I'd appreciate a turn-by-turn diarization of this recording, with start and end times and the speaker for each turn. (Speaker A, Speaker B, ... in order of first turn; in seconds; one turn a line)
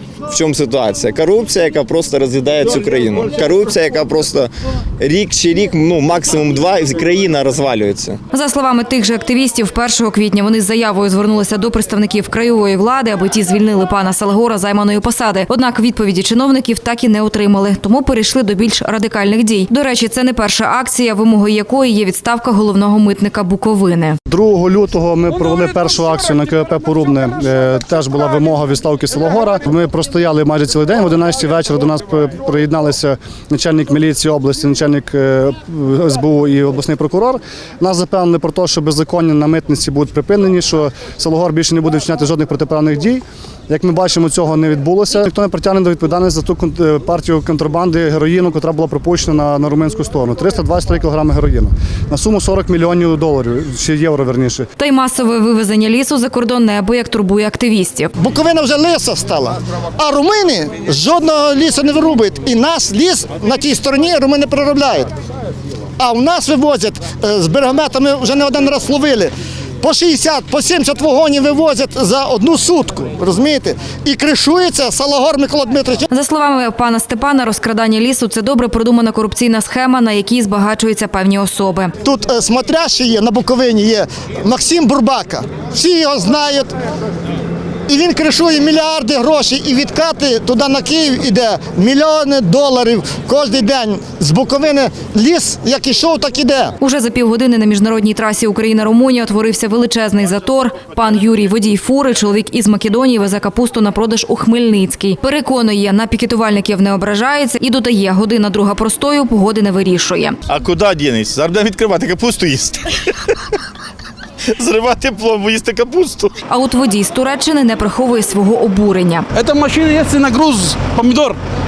Speaker A: 0.3-8.2
Speaker B: 8.3-24.2
Speaker C: 24.3-54.7
Speaker B: 54.8-58.1
Speaker D: 58.2-65.1
Speaker D: 66.0-76.0
Speaker B: 76.1-81.9
Speaker D: 82.0-86.7
Speaker D: 87.9-96.7
Speaker B: 96.8-110.4
Speaker E: 110.5-112.8
Speaker E: 114.5-116.3
Speaker B: 116.5-119.3
Speaker F: 119.3-121.4